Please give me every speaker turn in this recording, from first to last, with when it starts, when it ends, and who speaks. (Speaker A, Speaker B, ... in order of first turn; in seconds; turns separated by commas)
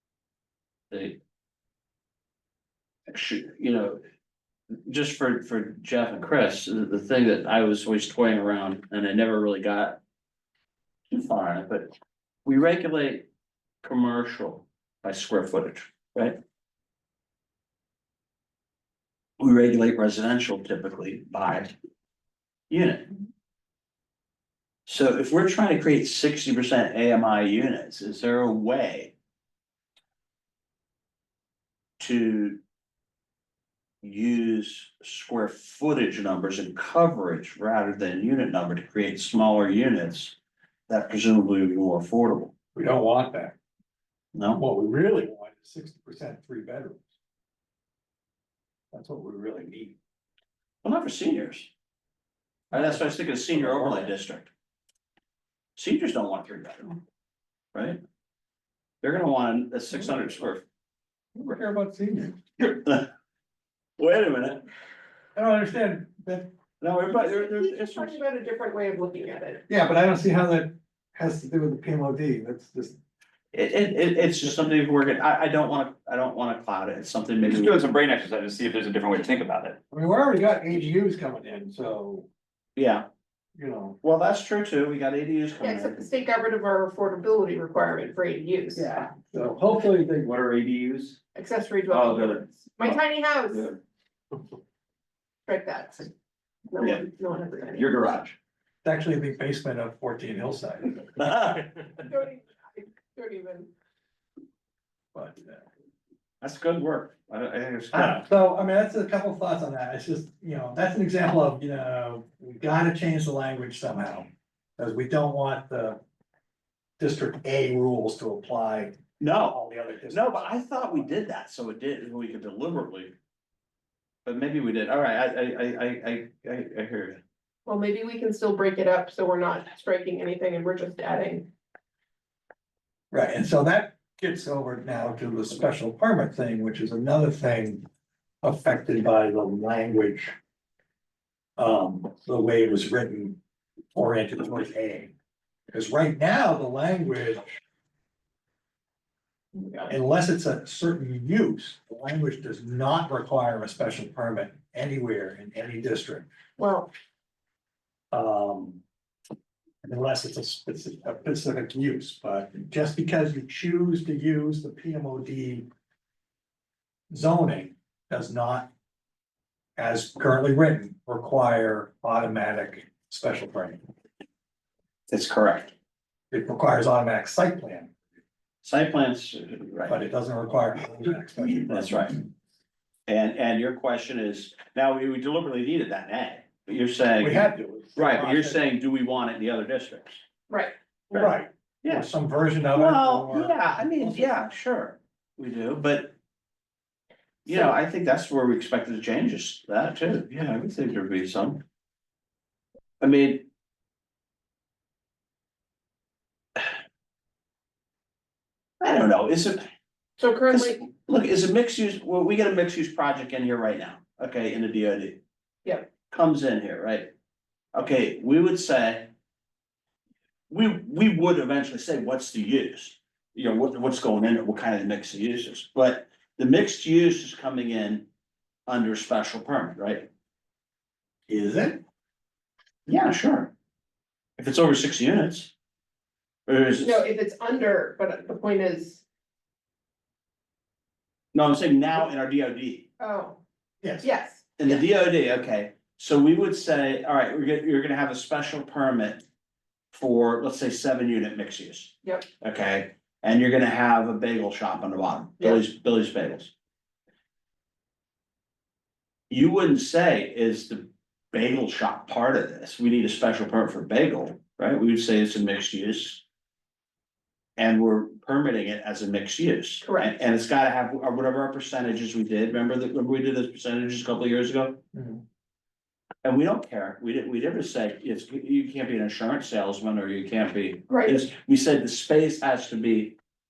Speaker A: 0.9-1.2, Speaker A: 3.1-4.0, Speaker A: 4.9-10.0, Speaker A: 11.1-11.9, Speaker A: 12.4-13.3, Speaker A: 13.8-16.4, Speaker A: 19.4-21.7, Speaker A: 22.7-23.1, Speaker A: 24.9-29.1, Speaker A: 32.0-32.6, Speaker A: 34.0-40.3, Speaker A: 40.9-42.5, Speaker B: 42.7-43.6, Speaker A: 44.3-44.6, Speaker B: 44.5-47.1, Speaker B: 48.9-50.0, Speaker A: 50.8-51.7, Speaker B: 52.7-54.1, Speaker A: 52.7-54.5, Speaker A: 55.8-57.0, Speaker A: 57.7-58.0, Speaker A: 59.0-60.6, Speaker B: 61.3-62.4, Speaker A: 62.6-63.1, Speaker A: 64.0-64.6, Speaker B: 65.3-66.5, Speaker A: 66.8-68.2, Speaker C: 67.1-69.6, Speaker B: 69.7-73.0, Speaker A: 73.5-77.8, Speaker B: 74.4-74.8, Speaker D: 77.4-79.8, Speaker B: 79.9-82.3, Speaker A: 82.8-83.1, Speaker B: 83.6-84.0, Speaker A: 84.0-86.0, Speaker C: 85.6-88.9, Speaker D: 88.8-91.2, Speaker C: 91.3-93.7, Speaker D: 91.9-93.0, Speaker D: 93.5-93.8, Speaker C: 95.5-96.1, Speaker C: 96.7-97.9, Speaker D: 97.7-98.3, Speaker B: 98.8-101.3, Speaker A: 101.2-101.7, Speaker C: 102.1-103.7, Speaker B: 105.1-105.6, Speaker A: 106.4-108.3, Speaker B: 107.9-116.0, Speaker B: 117.0-121.1, Speaker A: 119.2-119.6, Speaker A: 120.1-123.1, Speaker A: 124.2-127.2, Speaker C: 127.7-131.5, Speaker B: 133.1-137.8, Speaker B: 138.4-140.3, Speaker B: 141.6-143.4, Speaker B: 143.9-145.1, Speaker B: 145.7-147.4, Speaker C: 149.5-149.9, Speaker B: 149.9-156.3, Speaker C: 156.6-156.9, Speaker B: 158.1-158.8, Speaker B: 159.8-165.7, Speaker B: 167.1-168.7, Speaker B: 169.8-173.8, Speaker A: 175.1-175.7, Speaker B: 176.3-177.9, Speaker A: 178.6-179.9, Speaker B: 179.9-182.2, Speaker A: 181.3-182.2, Speaker A: 183.1-190.2, Speaker B: 187.2-188.6, Speaker C: 190.5-190.7, Speaker B: 191.1-194.3, Speaker A: 192.7-196.1, Speaker A: 197.4-201.6, Speaker A: 203.0-203.5, Speaker A: 208.8-209.6, Speaker C: 210.2-210.8, Speaker A: 210.5-215.2, Speaker C: 215.6-215.9, Speaker A: 216.1-217.1, Speaker A: 217.7-219.1, Speaker A: 220.5-228.1, Speaker A: 228.7-230.1, Speaker B: 231.3-231.8, Speaker A: 232.9-233.5, Speaker A: 234.4-235.5, Speaker A: 236.5-237.0, Speaker C: 236.8-239.0, Speaker A: 241.3-242.9, Speaker C: 243.0-243.4, Speaker B: 243.8-244.1, Speaker C: 244.0-244.8, Speaker A: 244.6-249.2, Speaker A: 249.9-256.5, Speaker A: 259.3-266.2, Speaker A: 267.6-274.8, Speaker C: 269.8-270.1, Speaker B: 274.9-275.2, Speaker A: 276.2-283.1, Speaker C: 280.9-281.2